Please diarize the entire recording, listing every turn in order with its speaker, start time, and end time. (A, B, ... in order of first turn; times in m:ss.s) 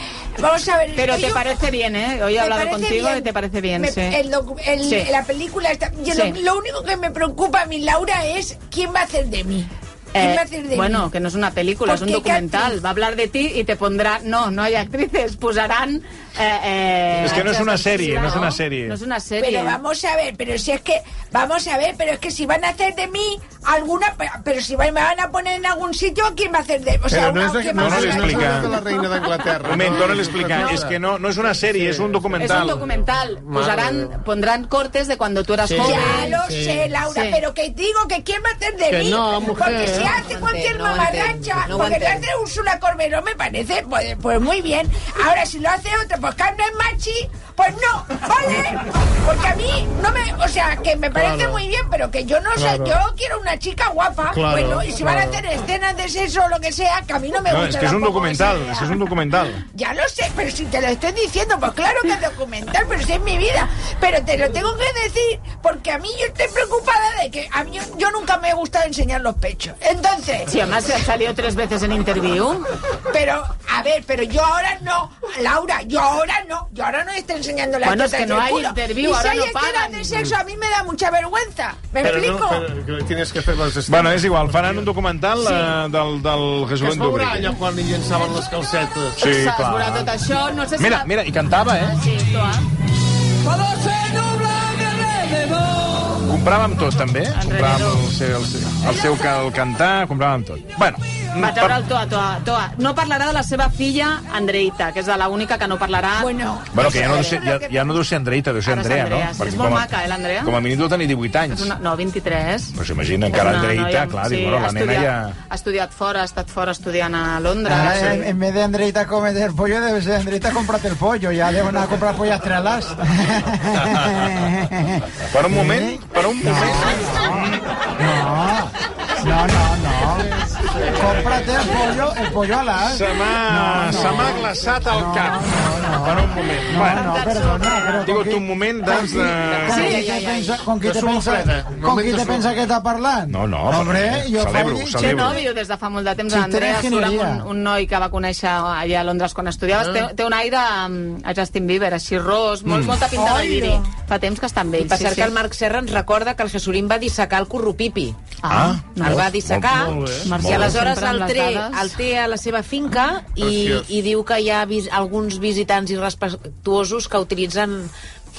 0:00.4-0:01.5 A
0:01.0-0:04.2 B
0:02.4-0:11.1 A
0:04.8-0:05.1 B
0:06.1-0:06.4 B
0:10.1-0:19.8 B
0:11.9-0:12.8 A
0:17.2-0:19.0 C
0:19.4-0:28.8 A
0:27.1-0:31.0 D
0:27.7-0:28.8 C
0:29.6-0:32.8 C
0:30.5-0:30.8 B
0:31.6-0:34.2 D
0:32.4-0:36.4 B
0:35.6-0:36.9 D
0:35.8-0:59.0 A
0:37.1-0:37.4 B
0:38.9-0:40.1 D
0:39.8-0:42.3 E
0:51.1-0:51.6 D
0:52.6-0:53.0 D
0:54.3-0:55.4 D
0:57.5-0:59.6 C
0:59.7-1:10.6 A
1:10.5-1:12.6 B
1:13.1-1:22.7 A
1:17.8-1:20.1 B
1:22.0-1:24.9 D
1:23.9-1:27.6 C
1:26.8-1:29.2 D
1:29.2-1:31.1 B
1:29.2-1:30.2 C
1:30.8-1:32.0 C
1:31.8-1:32.7 B
1:33.6-1:33.9 D
1:34.6-1:35.6 D
1:36.0-1:41.8 C
1:37.4-1:38.1 B
1:41.4-1:47.4 B
1:46.2-1:47.8 A
1:46.7-1:51.7 C
1:48.7-1:50.6 B
1:51.5-1:52.8 B
1:52.8-1:55.4 C
1:53.3-1:58.3 B
1:57.6-2:25.4 F
2:05.3-2:07.7 C
2:12.8-2:17.1 C
2:16.9-2:18.1 B
2:18.0-2:20.0 C
2:19.7-2:20.5 B
2:20.8-2:22.5 D
2:23.3-2:25.4 C
2:25.0-2:35.3 B
2:26.3-2:27.5 F
2:29.7-2:30.1 D
2:32.7-2:33.0 C
2:34.8-2:38.2 E
2:38.4-2:39.3 B
2:38.5-2:40.8 C
2:39.0-2:47.9 E
2:39.7-2:40.4 D
2:40.2-2:42.0 B
2:43.4-2:43.9 D